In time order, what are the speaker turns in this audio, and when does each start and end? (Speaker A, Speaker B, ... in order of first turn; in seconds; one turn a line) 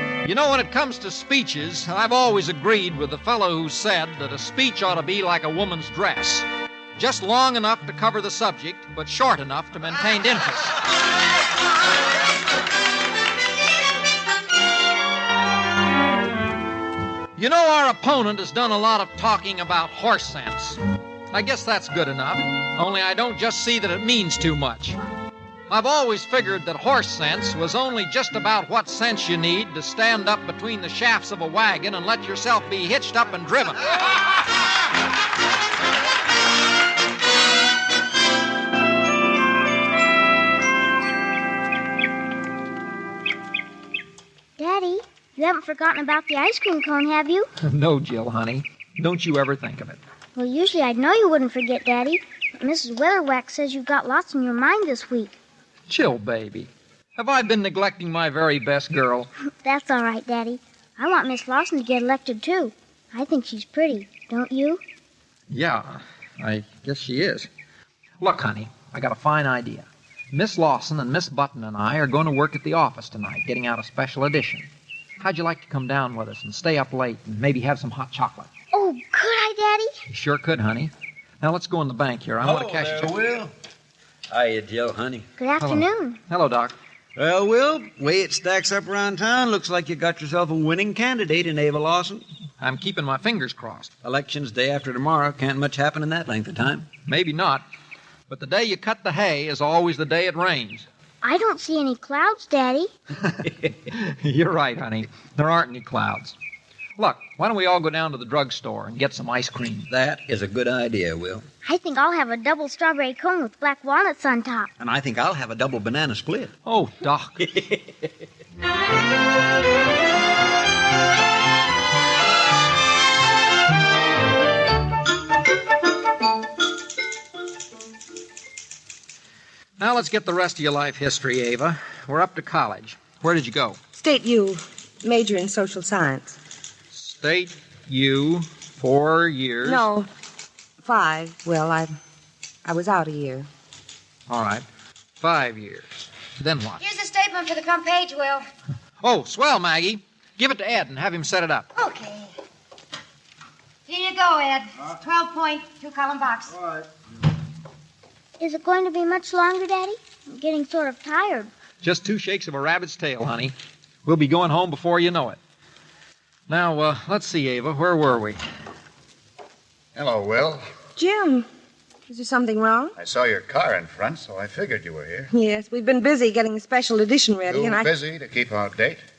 Speaker A: 0.2-10.8
Speaker A: 17.4-20.8
Speaker A: 21.3-25.0
Speaker A: 25.7-33.9
Speaker B: 44.6-47.5
Speaker A: 47.6-50.0
Speaker B: 50.4-55.3
Speaker A: 55.9-59.3
Speaker B: 59.6-64.8
Speaker A: 65.5-67.5
Speaker A: 68.2-74.7
Speaker A: 75.2-78.5
Speaker B: 78.7-80.0
Speaker A: 80.1-83.1
Speaker C: 82.4-83.5
Speaker C: 84.3-85.3
Speaker B: 85.4-86.2
Speaker A: 85.6-86.7
Speaker C: 87.2-92.2
Speaker A: 92.6-93.9
Speaker C: 94.0-96.9
Speaker A: 97.1-97.6
Speaker A: 98.3-100.9
Speaker B: 101.2-102.9
Speaker A: 103.8-106.4
Speaker A: 107.0-109.9
Speaker C: 109.9-111.5
Speaker B: 111.6-114.7
Speaker C: 114.8-116.5
Speaker A: 116.7-117.5
Speaker C: 117.4-118.1
Speaker A: 129.8-133.8
Speaker D: 134.0-136.4
Speaker A: 136.9-139.9
Speaker D: 139.6-140.1
Speaker D: 140.8-141.9
Speaker D: 142.7-143.5
Speaker A: 144.3-144.7
Speaker A: 145.2-146.8
Speaker E: 146.8-148.5
Speaker A: 149.0-151.7
Speaker E: 151.8-152.3
Speaker E: 153.9-156.7
Speaker B: 158.4-161.5
Speaker A: 161.8-163.5
Speaker A: 164.1-165.4
Speaker A: 166.5-168.4
Speaker F: 169.9-170.6
Speaker D: 171.0-171.4
Speaker D: 172.1-173.0
Speaker F: 173.0-175.3
Speaker D: 175.3-177.9
Speaker F: 177.5-179.0